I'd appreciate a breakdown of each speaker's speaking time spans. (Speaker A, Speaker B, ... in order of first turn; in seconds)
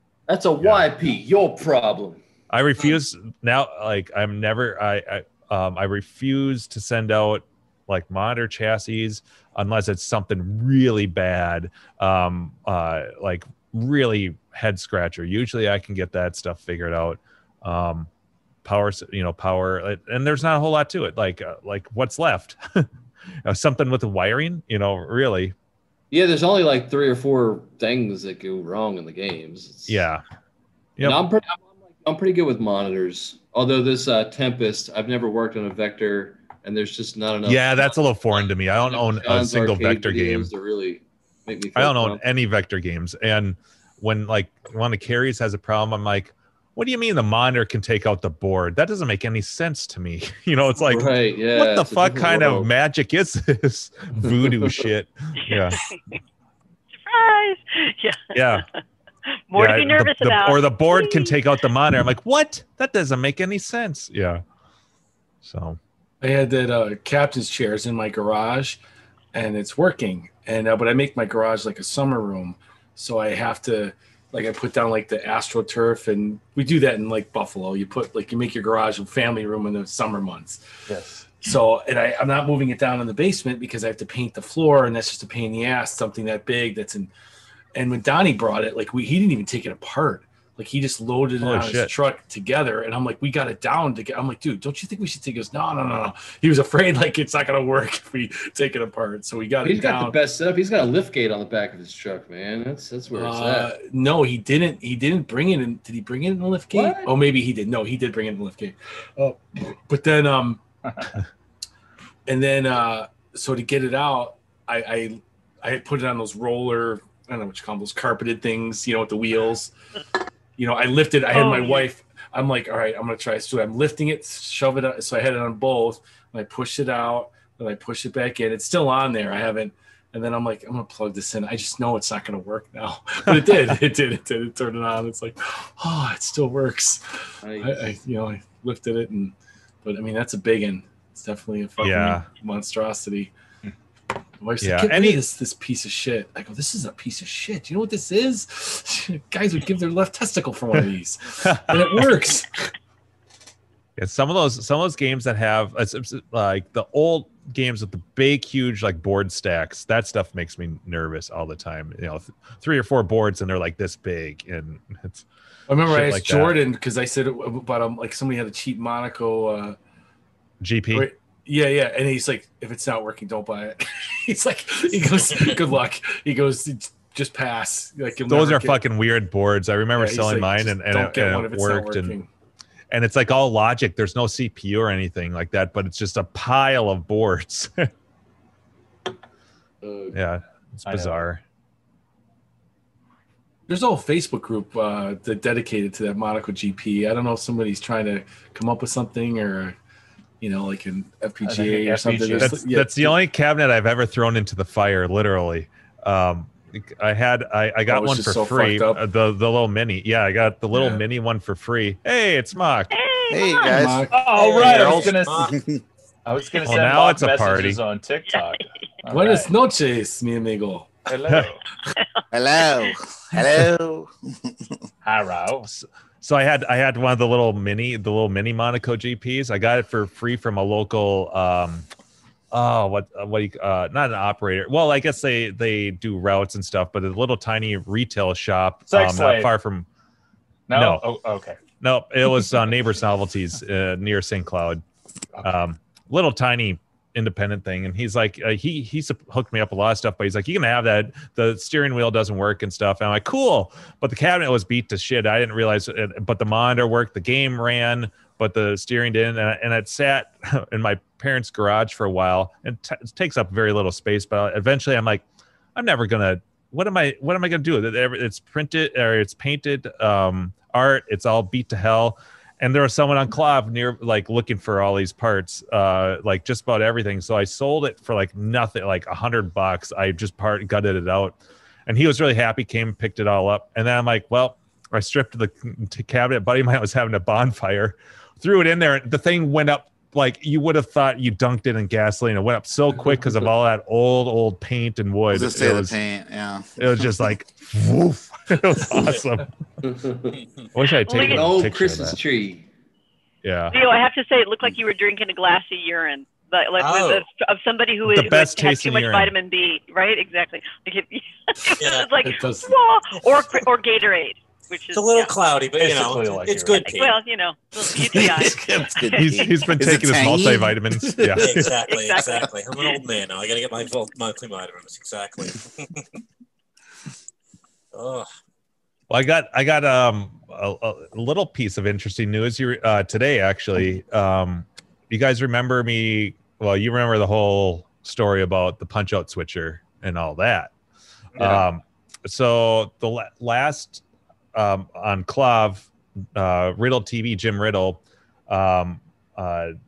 Speaker A: 0.3-2.2, 26.1-30.0, 31.0-42.2, 50.9-52.7, 54.3-54.7, 99.6-103.7, 106.7-107.1, 137.4-137.8, 299.8-300.3, 301.2-302.7
Speaker B: 0.6-0.9, 2.5-18.1, 18.6-22.9, 23.4-25.5, 29.9-30.2, 37.4-40.5, 41.7-55.8, 58.3-58.6, 59.5-64.4, 65.4-65.8, 91.4-91.9, 141.8-142.2, 144.6-145.2, 151.4-152.1, 154.0-165.2, 165.8-166.6, 170.6-171.1, 178.3-182.2, 182.9-187.9, 190.1-191.4, 202.4-212.9, 216.6-217.8, 225.7-231.8, 232.5-239.9, 240.7-241.0, 241.8-244.8, 245.4-265.2, 265.8-296.0, 296.8-299.5, 300.7-302.2, 303.4-303.8, 308.0-309.3, 319.1-321.7, 329.1-340.7, 341.4-344.0, 344.5-349.7
Speaker C: 55.4-56.0, 57.0-58.6, 59.5-61.4, 121.3-121.9, 212.9-213.8, 218.3-218.6, 221.9-222.9, 301.1-301.4, 303.7-315.3, 316.7-319.7, 321.8-322.9
Speaker D: 66.2-68.8, 69.3-80.6, 81.3-87.1, 87.7-100.2, 103.1-110.6, 112.3-119.7, 120.6-137.0, 137.6-143.3, 144.4-152.7, 165.7-169.8, 170.9-178.8, 179.9-182.3, 189.8-190.1, 193.7-199.8, 200.4-203.2, 207.9-209.0, 213.7-214.2, 219.1-221.0, 312.2-312.7
Speaker E: 80.9-81.2, 190.9-191.2, 201.4-202.6, 214.1-215.5, 216.2-219.5, 221.1-221.6, 225.0-225.7, 238.9-239.5, 240.7-241.6, 315.8-317.0
Speaker F: 213.3-214.1, 214.8-215.8, 222.3-224.7, 295.3-297.3, 317.9-321.7
Speaker G: 214.3-215.6, 306.8-307.2, 311.8-312.1, 314.9-317.2, 321.4-326.0, 327.9-328.3